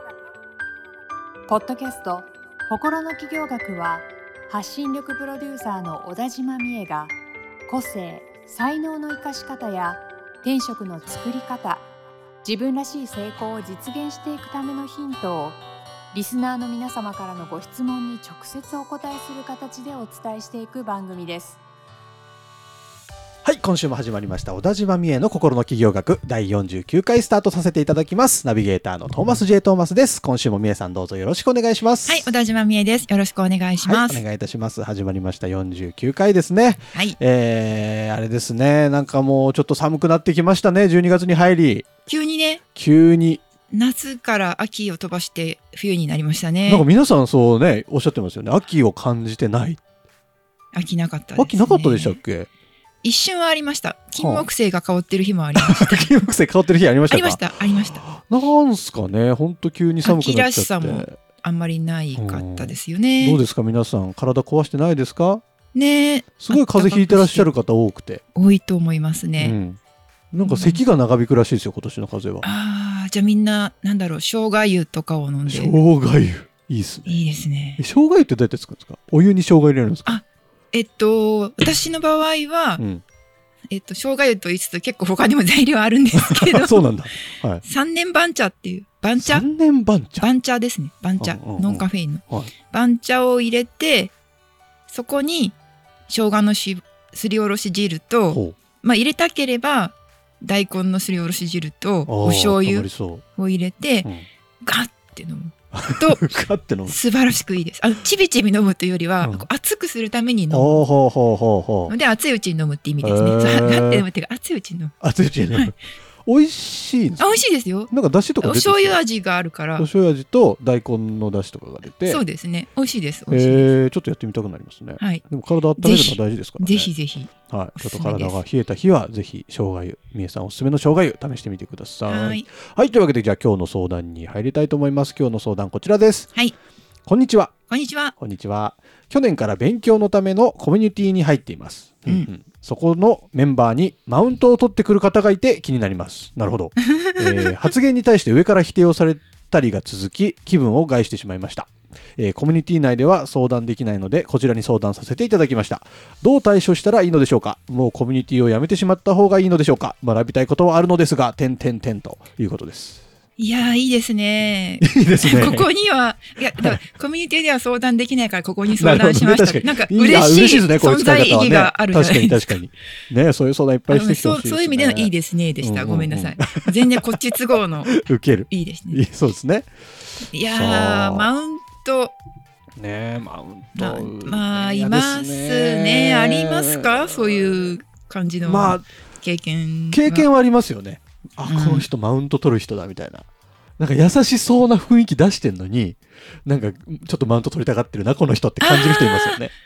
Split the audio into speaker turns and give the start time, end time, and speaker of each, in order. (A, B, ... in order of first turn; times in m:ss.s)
0:01.5-0:07.1 A
0:07.7-0:11.8 A
0:12.4-0:15.6 A
0:16.1-0:21.6 A
0:23.4-0:32.3 B
0:32.0-0:34.2 C
0:33.8-0:41.9 B
0:42.0-0:42.6 C
0:42.8-0:43.4 B
0:43.7-0:46.9 C
0:46.7-0:49.8 B
0:50.7-0:52.2 C
0:51.4-0:52.5 B
0:53.0-0:56.1 C
0:54.2-0:54.4 B
0:55.6-1:01.2 B
0:57.1-0:58.0 C
1:00.0-1:03.4 C
1:02.2-1:05.4 B
1:05.7-1:07.5 C
1:06.4-1:08.2 B
1:08.3-1:09.6 C
1:09.4-1:09.8 B
1:10.3-1:12.4 B
1:10.4-1:10.8 C
1:12.4-1:15.8 C
1:15.5-1:17.2 B
1:17.0-1:17.8 C
1:17.8-1:20.2 B
1:20.0-1:22.8 C
1:22.8-1:23.0 B
1:23.7-1:26.9 C
1:26.1-1:27.6 B
1:27.6-1:29.4 C
1:29.2-1:30.3 B
1:30.2-1:34.1 C
1:31.2-1:32.5 B
1:34.9-1:35.6 C
1:36.1-1:44.1 C
1:38.3-1:38.6 B
1:42.1-1:43.2 B
1:44.6-1:46.3 C
1:45.7-1:47.0 B
1:46.8-1:50.8 C
1:49.2-1:49.5 B
1:50.5-1:51.9 B
1:51.9-1:54.9 C
1:53.0-1:54.0 B
1:55.0-1:59.0 B
1:57.2-1:59.9 C
1:59.8-2:02.2 B
2:02.0-2:03.7 C
2:03.3-2:06.9 B
2:05.0-2:05.2 C
2:05.8-2:08.4 C
2:07.5-2:16.3 B
2:12.1-2:12.5 C
2:17.1-2:17.5 B
2:17.7-2:18.1 C
2:18.2-2:43.0 B
2:27.0-2:27.5 C
2:43.4-2:52.6 C
2:44.8-2:45.7 B
2:46.6-2:46.8 B
2:48.8-2:59.7 B
2:53.9-2:59.0 C
3:00.3-3:02.2 C
3:00.4-3:01.3 B
3:02.8-3:07.8 B
3:03.8-3:10.3 C
3:08.4-3:08.8 B
3:09.9-3:13.2 B
3:11.4-3:11.9 C
3:13.8-3:19.5 B
3:18.6-3:19.5 C